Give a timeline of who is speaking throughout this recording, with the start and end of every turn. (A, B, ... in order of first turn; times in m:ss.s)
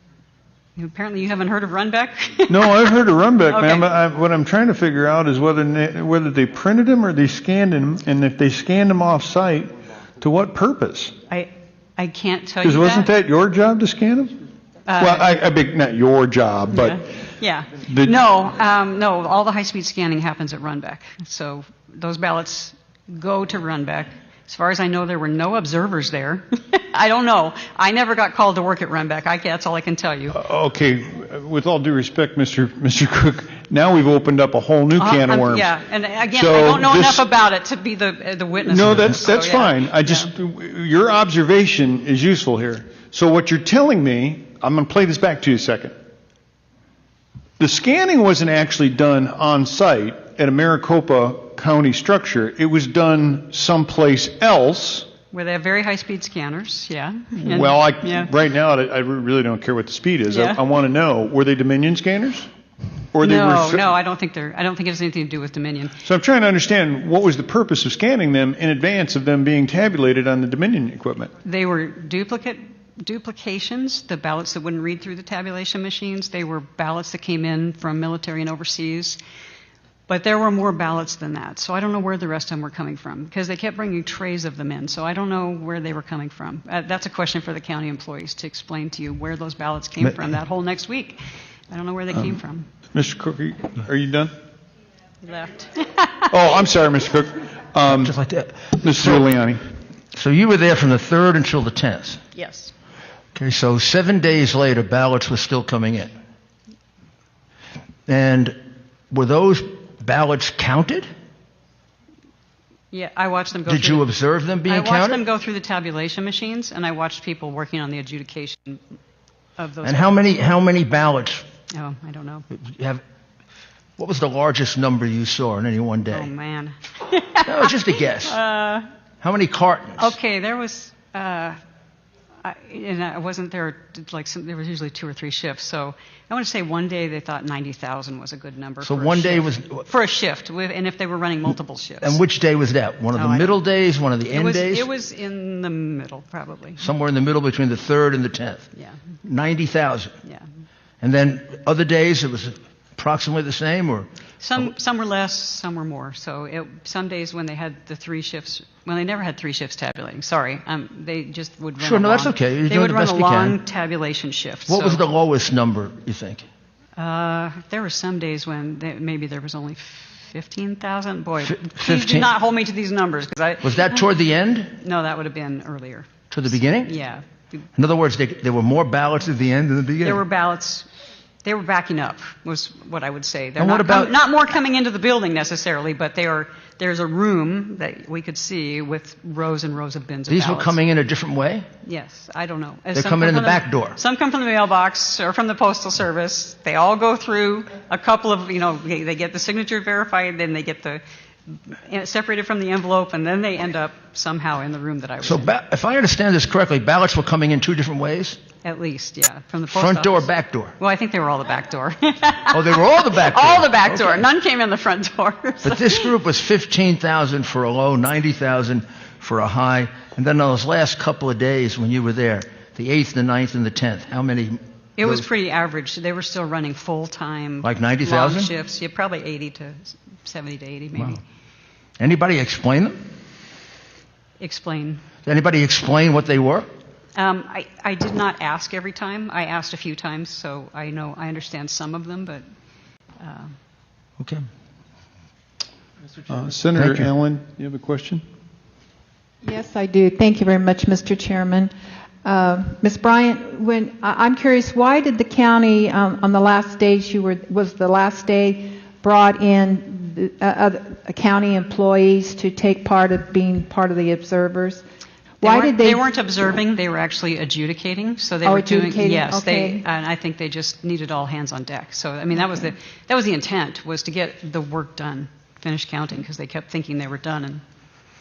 0:00.8-0:02.8 A
0:02.5-0:11.1 B
0:03.5-0:03.8 A
0:11.3-0:13.1 A
0:12.6-0:14.3 B
0:14.9-0:15.3 A
0:15.0-0:17.0 B
0:16.7-0:30.4 A
0:17.8-0:18.1 B
0:30.3-0:35.7 B
0:35.0-0:40.3 A
0:36.3-0:37.2 B
0:38.6-0:45.9 B
0:47.6-0:55.1 B
0:55.3-0:58.3 A
0:57.4-1:02.5 B
1:00.3-1:00.6 A
1:03.1-1:03.9 B
1:03.2-1:06.0 A
1:06.0-1:11.3 B
1:11.4-1:19.2 A
1:20.1-1:31.2 A
1:31.7-1:32.7 A
1:32.9-1:34.3 B
1:35.2-1:36.3 A
1:36.3-1:38.1 B
1:37.9-1:39.3 C
1:38.8-1:39.6 B
1:40.1-1:42.2 C
1:42.3-1:42.7 A
1:43.3-1:46.1 C
1:48.1-1:48.6 C
1:49.1-1:51.1 C
1:52.9-1:54.0 A
1:53.7-1:55.2 C
1:54.7-1:58.8 A
1:59.6-2:00.2 A
1:59.8-2:01.4 C
2:01.7-2:02.5 A
2:02.5-2:03.0 C
2:04.0-2:06.3 C
2:06.1-2:08.9 A
2:07.4-2:08.4 C
2:09.2-2:10.1 C
2:10.0-2:11.6 A
2:12.4-2:22.2 A
2:18.8-2:19.8 C
2:22.0-2:24.9 C
2:23.2-2:23.6 A
2:24.3-2:26.8 A
2:26.8-2:28.7 C
2:29.2-2:30.1 C
2:31.0-2:34.1 C
2:34.4-2:45.0 A
2:41.8-2:43.6 C
2:44.7-2:46.4 C
2:47.0-2:54.0 A
2:51.4-2:52.3 C
2:53.6-2:54.8 C
2:54.8-2:56.2 A
2:56.3-2:56.9 C
2:56.8-2:57.2 A
2:57.8-3:00.2 C
3:00.0-3:00.9 A
3:01.4-3:10.8 A
3:03.6-3:04.1 C
3:10.3-3:11.6 C
3:11.8-3:21.0 A
3:12.9-3:14.0 C
3:21.7-3:25.5 A
3:25.2-3:28.4 C
3:28.6-3:36.1 A
3:29.7-3:30.8 C
3:32.5-3:34.2 C
3:35.6-3:45.2 C
3:45.0-3:51.2 A
3:47.6-3:48.5 C
3:52.0-3:53.0 C
3:54.4-3:55.0 A
3:55.2-3:56.7 C
3:57.2-4:02.4 A
4:03.2-4:03.5 A
4:06.3-4:08.2 B
4:06.8-4:07.1 C
4:09.4-4:11.7 D
4:12.2-4:24.8 D
4:25.4-4:26.0 D
4:25.4-4:37.6 A
4:28.4-4:29.8 D